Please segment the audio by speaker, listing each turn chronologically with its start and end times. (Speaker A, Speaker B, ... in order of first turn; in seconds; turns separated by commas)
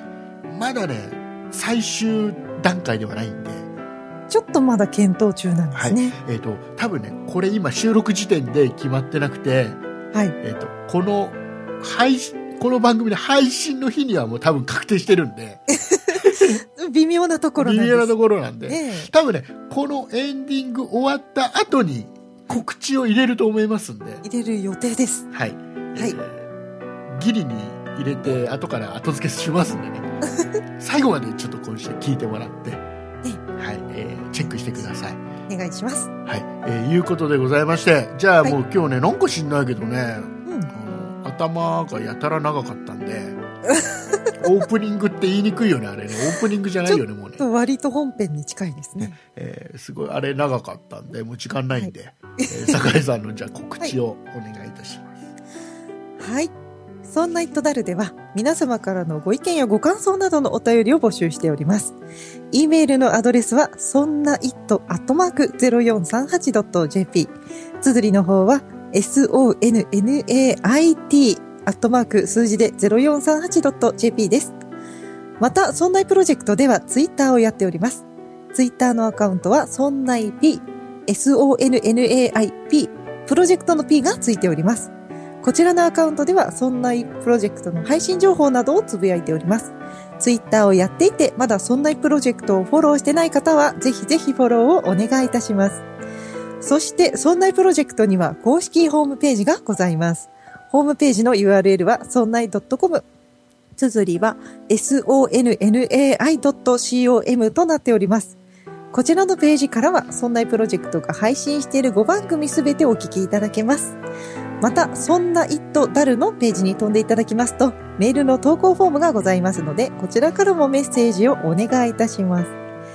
Speaker A: 0.5-3.7, Speaker B: 4.3-6.2, Speaker A: 5.7-9.8, Speaker A: 10.4-15.6, Speaker B: 15.7-18.1, Speaker A: 16.1-16.6, Speaker A: 17.6-24.2, Speaker B: 18.7-19.1, Speaker B: 24.2-25.3, Speaker A: 25.3-26.5, Speaker A: 27.1-30.1, Speaker A: 30.8-32.9, Speaker A: 33.6-35.2, Speaker B: 35.5-36.1, Speaker A: 36.3-43.4, Speaker B: 40.5-40.7, Speaker B: 43.7-44.4, Speaker A: 44.4-47.4, Speaker B: 46.9-49.2, Speaker A: 49.0-55.3, Speaker B: 51.7-52.7, Speaker B: 56.2-56.5, Speaker B: 57.1-62.0, Speaker B: 62.5-74.5, Speaker B: 75.4-84.9, Speaker B: 85.4-95.8, Speaker B: 96.6-103.0, Speaker B: 103.8-108.4, Speaker B: 108.9-114.0, Speaker B: 114.6-122.5